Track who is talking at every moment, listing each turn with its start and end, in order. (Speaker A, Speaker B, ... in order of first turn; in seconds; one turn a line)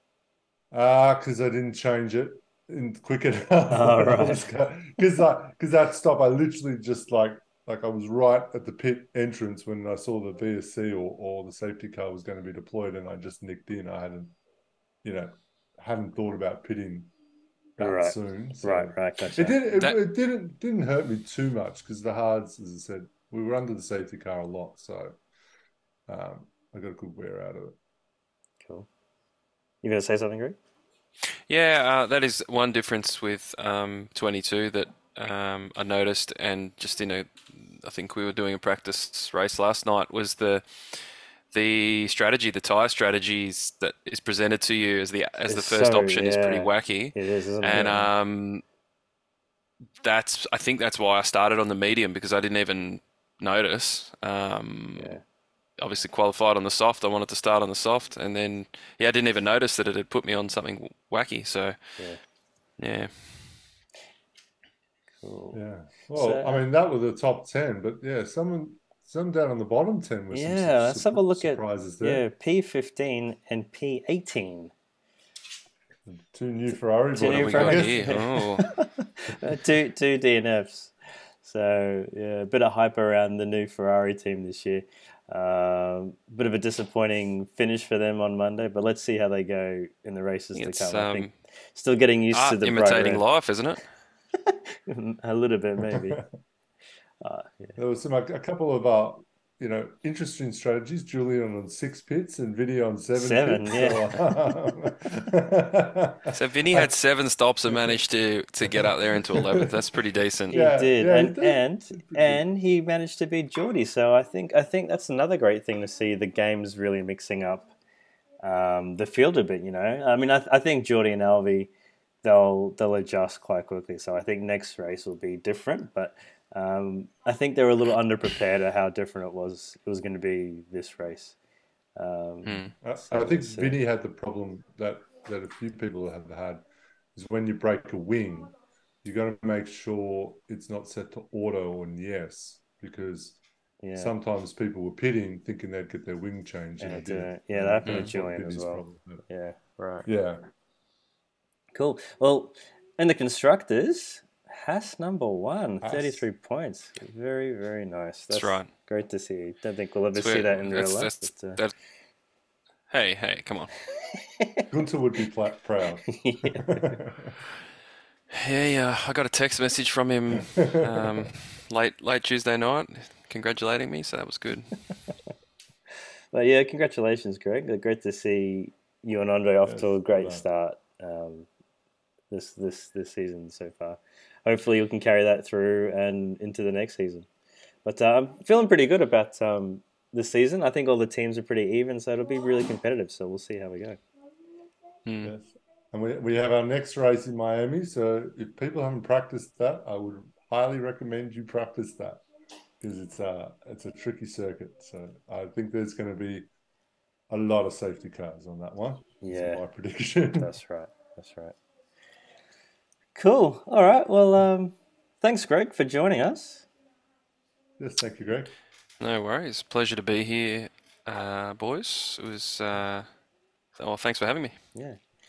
Speaker A: 0.7-14.4
Speaker B: 3.7-4.5
Speaker A: 15.0-17.1
Speaker A: 17.8-25.2
Speaker B: 17.8-19.6
Speaker C: 19.7-20.0
Speaker A: 26.1-27.8
Speaker B: 29.8-30.6
Speaker C: 31.5-41.0
Speaker C: 41.5-48.6
Speaker B: 45.5-48.1
Speaker C: 50.0-55.2
Speaker B: 55.0-55.2
Speaker C: 55.8-61.8
Speaker C: 62.8-63.5
Speaker B: 65.2-65.6
Speaker A: 65.5-72.3
Speaker B: 66.1-66.6
Speaker B: 70.3-74.7
Speaker A: 76.1-78.2
Speaker B: 77.1-93.3
Speaker C: 77.2-78.6
Speaker C: 90.5-91.3
Speaker C: 92.3-93.8
Speaker B: 94.5-96.2
Speaker B: 97.2-97.8
Speaker A: 97.8-106.9
Speaker B: 103.1-104.5
Speaker C: 106.3-110.7
Speaker B: 110.5-117.7
Speaker A: 110.5-112.4
Speaker B: 118.4-121.7
Speaker B: 122.2-131.4
Speaker B: 132.0-133.8
Speaker C: 132.4-132.8
Speaker A: 132.8-136.6
Speaker A: 137.2-138.5
Speaker A: 139.0-143.4
Speaker B: 143.8-144.1
Speaker A: 143.9-149.3
Speaker B: 146.8-150.1
Speaker A: 150.1-150.4
Speaker B: 151.7-161.6
Speaker A: 155.8-156.2
Speaker C: 158.3-158.7
Speaker C: 160.1-161.7
Speaker C: 162.9-163.7
Speaker B: 164.0-164.6
Speaker A: 164.7-167.3
Speaker B: 166.1-166.9
Speaker C: 168.3-174.8
Speaker B: 176.3-181.5
Speaker A: 179.7-180.4
Speaker B: 182.3-187.3
Speaker B: 187.8-194.0
Speaker C: 195.1-195.3
Speaker A: 195.2-202.2
Speaker A: 202.8-206.5
Speaker A: 207.3-210.5
Speaker B: 209.2-209.6
Speaker B: 210.4-211.6
Speaker B: 213.2-216.7
Speaker A: 217.8-218.5
Speaker C: 219.0-223.1
Speaker C: 223.8-224.5
Speaker B: 224.8-225.0